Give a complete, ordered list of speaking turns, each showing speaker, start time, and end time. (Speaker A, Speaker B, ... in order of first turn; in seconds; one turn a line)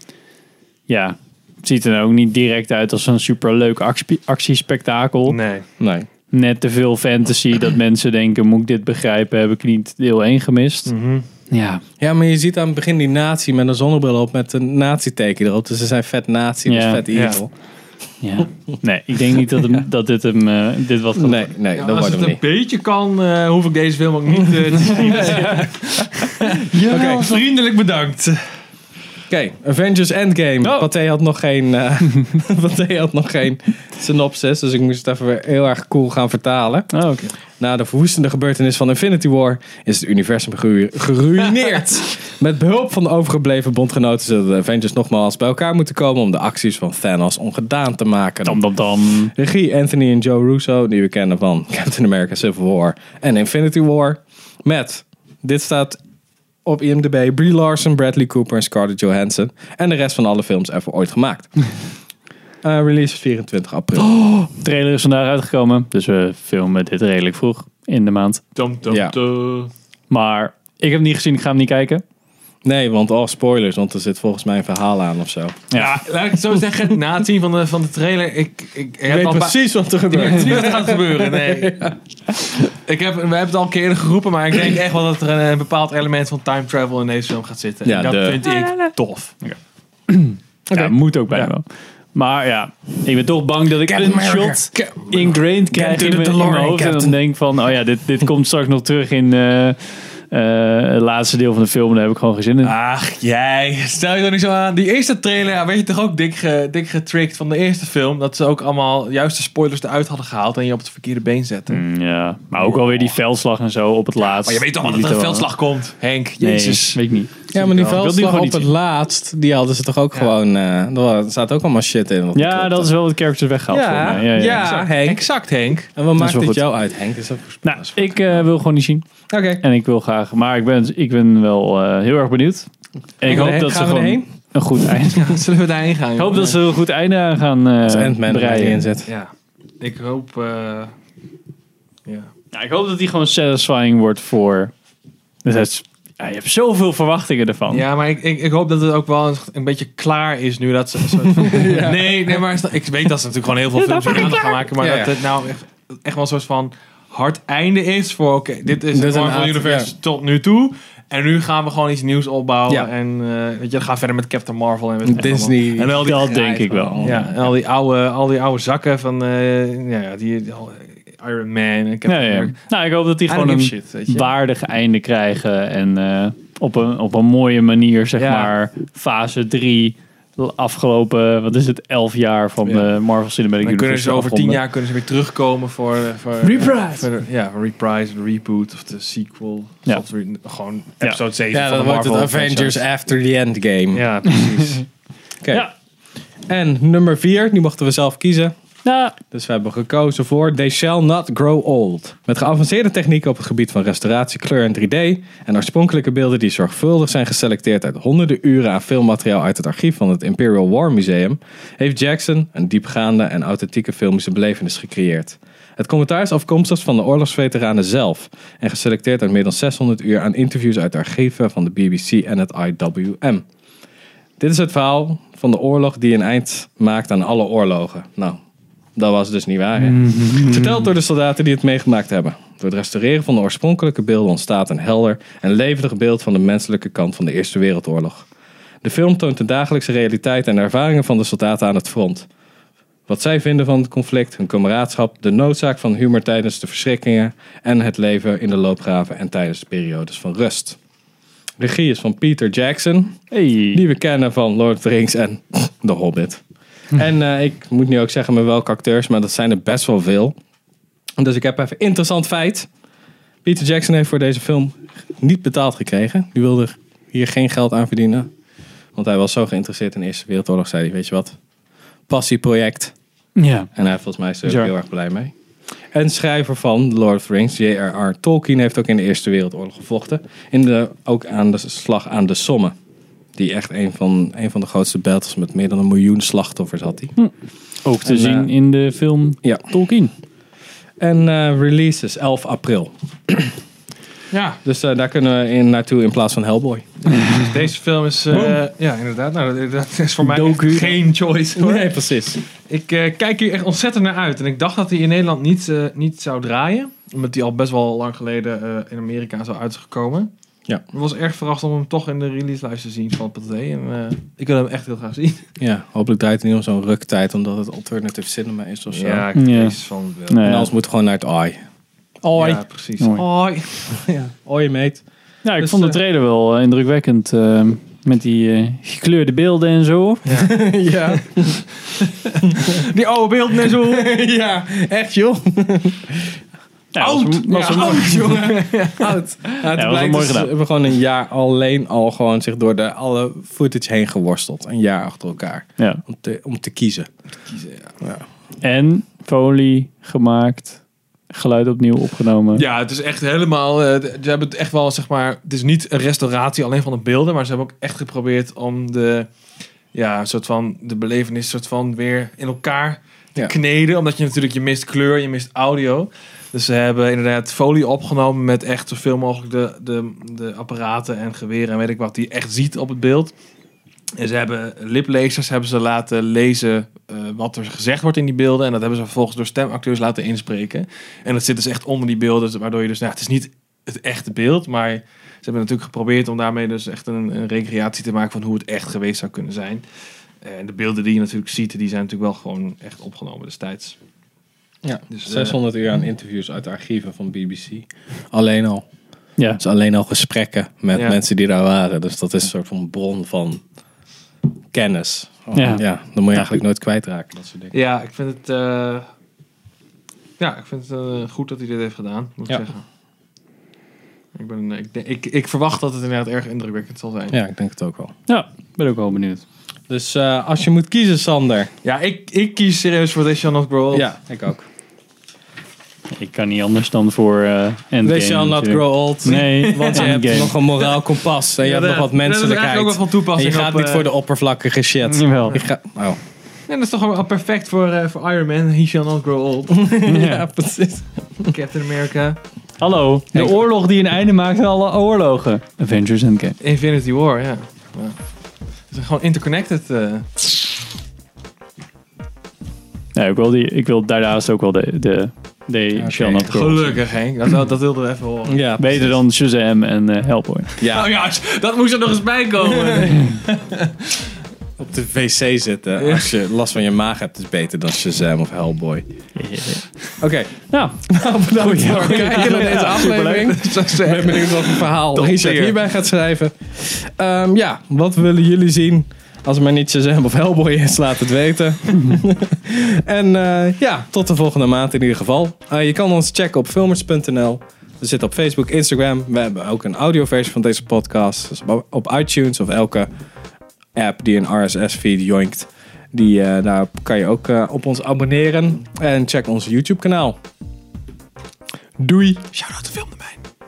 Speaker A: 0.9-5.4
Speaker B: 5.2-5.7
Speaker C: 5.8-6.1
Speaker A: 6.3-10.9
Speaker B: 10.8-11.3
Speaker A: 11.5-11.8
Speaker C: 12.0-17.5
Speaker A: 16.6-17.1
Speaker B: 17.1-17.4
Speaker A: 18.2-21.5
Speaker C: 21.1-22.4
Speaker B: 21.7-28.4
Speaker C: 26.9-27.3
Speaker C: 29.3-36.9
Speaker A: 30.6-30.9
Speaker A: 36.9-37.3
Speaker C: 37.6-56.0
Speaker A: 48.4-49.3
Speaker C: 56.6-61.6
Speaker C: 62.6-64.1
Speaker A: 64.0-68.4
Speaker B: 68.5-69.7
Speaker C: 68.8-69.1
Speaker A: 70.1-72.0
Speaker C: 72.6-75.6
Speaker B: 75.7-89.3
Speaker C: 79.1-82.4
Speaker C: 87.8-88.5
Speaker A: 90.1-102.7
Speaker C: 93.8-97.2
Speaker B: 102.6-111.8
Speaker A: 111.7-115.5
Speaker B: 112.5-113.1
Speaker B: 114.2-117.0
Speaker A: 116.4-117.3
Speaker C: 117.5-123.0
Speaker B: 117.5-118.0
Speaker A: 118.0-118.7
Speaker A: 122.3-124.7
Speaker C: 123.7-125.2
Speaker B: 124.5-125.9
Speaker C: 125.9-128.5
Speaker A: 126.2-126.6
Speaker A: 127.6-129.0
Speaker C: 129.3-129.6
Speaker A: 129.6-132.7
Speaker A: 133.2-135.4
Speaker C: 133.2-134.3
Speaker B: 135.0-136.6
Speaker A: 136.2-138.9
Speaker C: 137.8-139.1
Speaker B: 139.1-140.9
Speaker B: 142.1-142.3
Speaker A: 142.5-144.7
Speaker A: 145.4-147.8
Speaker B: 147.7-166.4
Speaker C: 151.2-152.4
Speaker A: 154.0-154.4
Speaker C: 154.8-155.1
Speaker C: 158.9-159.9
Speaker C: 165.0-167.5
Speaker A: 166.0-167.1
Speaker B: 167.0-172.6
Speaker A: 172.1-184.6
Speaker B: 173.2-174.3
Speaker B: 178.2-178.5
Speaker B: 183.6-192.8
Speaker A: 186.4-187.0
Speaker C: 191.5-194.1
Speaker B: 193.9-194.8
Speaker C: 195.4-195.7
Speaker C: 196.5-198.5
Speaker A: 198.8-199.1
Speaker C: 199.3-223.4
Speaker C: 224.4-228.4
Speaker C: 228.9-238.3
Speaker A: 229.9-230.8
Speaker C: 238.8-242.3
Speaker C: 243.1-250.8
Speaker C: 251.6-253.2
Speaker A: 253.3-253.8
Speaker C: 253.7-256.4
Speaker C: 256.9-260.4
Speaker C: 261.2-262.7
Speaker C: 263.4-268.3
Speaker C: 268.9-271.4
Speaker C: 272.1-272.9
Speaker A: 273.4-273.7
Speaker C: 273.8-275.3
Speaker A: 274.4-274.7
Speaker C: 275.9-282.7
Speaker C: 283.4-287.1
Speaker A: 287.8-290.1
Speaker C: 288.0-288.5
Speaker C: 291.0-293.5
Speaker B: 294.3-294.6
Speaker C: 294.6-297.0
Speaker B: 297.2-301.9
Speaker A: 300.2-301.0
Speaker C: 301.6-302.4
Speaker B: 302.5-310.3
Speaker B: 310.9-315.4
Speaker C: 315.6-319.3
Speaker B: 318.9-320.4
Speaker A: 319.3-319.8
Speaker A: 320.3-320.7
Speaker C: 320.4-321.6
Speaker C: 322.2-322.6
Speaker B: 322.3-323.9
Speaker A: 323.0-323.2
Speaker C: 323.9-325.0
Speaker A: 325.4-330.2
Speaker C: 325.6-326.0
Speaker B: 330.2-330.5
Speaker C: 330.3-331.6
Speaker B: 331.9-334.1
Speaker C: 333.7-336.4
Speaker A: 336.9-338.1
Speaker B: 337.0-339.2
Speaker C: 337.5-347.1
Speaker A: 339.7-340.5
Speaker B: 347.4-348.0
Speaker A: 348.6-350.8
Speaker A: 351.3-352.6
Speaker B: 352.5-359.3
Speaker B: 359.9-373.3
Speaker B: 374.2-389.8
Speaker B: 390.4-394.0
Speaker C: 394.8-398.9
Speaker B: 395.1-395.6
Speaker C: 399.6-403.6
Speaker B: 400.9-401.2
Speaker C: 404.7-407.7
Speaker A: 405.5-405.8
Speaker B: 407.7-409.1
Speaker B: 410.4-412.8
Speaker B: 414.3-417.4
Speaker C: 417.3-418.1
Speaker A: 418.3-419.4
Speaker C: 419.9-421.7
Speaker B: 421.8-424.1
Speaker C: 423.9-424.6
Speaker A: 426.1-430.6
Speaker C: 428.0-436.2
Speaker B: 429.2-430.9
Speaker B: 431.6-434.1
Speaker A: 435.1-435.6
Speaker B: 436.7-440.0
Speaker C: 439.7-441.5
Speaker A: 440.0-440.4
Speaker B: 441.5-442.4
Speaker A: 442.8-446.6
Speaker C: 443.3-443.6
Speaker B: 446.6-448.1
Speaker B: 448.9-450.5
Speaker A: 453.1-457.0
Speaker C: 455.9-456.5
Speaker B: 456.4-458.6
Speaker C: 458.5-459.1
Speaker A: 458.8-460.8
Speaker B: 460.8-464.3
Speaker C: 460.8-461.1
Speaker C: 464.8-469.0
Speaker B: 466.0-466.3
Speaker A: 469.4-470.1
Speaker C: 470.2-493.1
Speaker A: 470.7-471.0
Speaker A: 471.5-473.4
Speaker B: 472.0-475.8
Speaker C: 493.9-500.4
Speaker C: 502.0-502.5
Speaker B: 502.5-503.4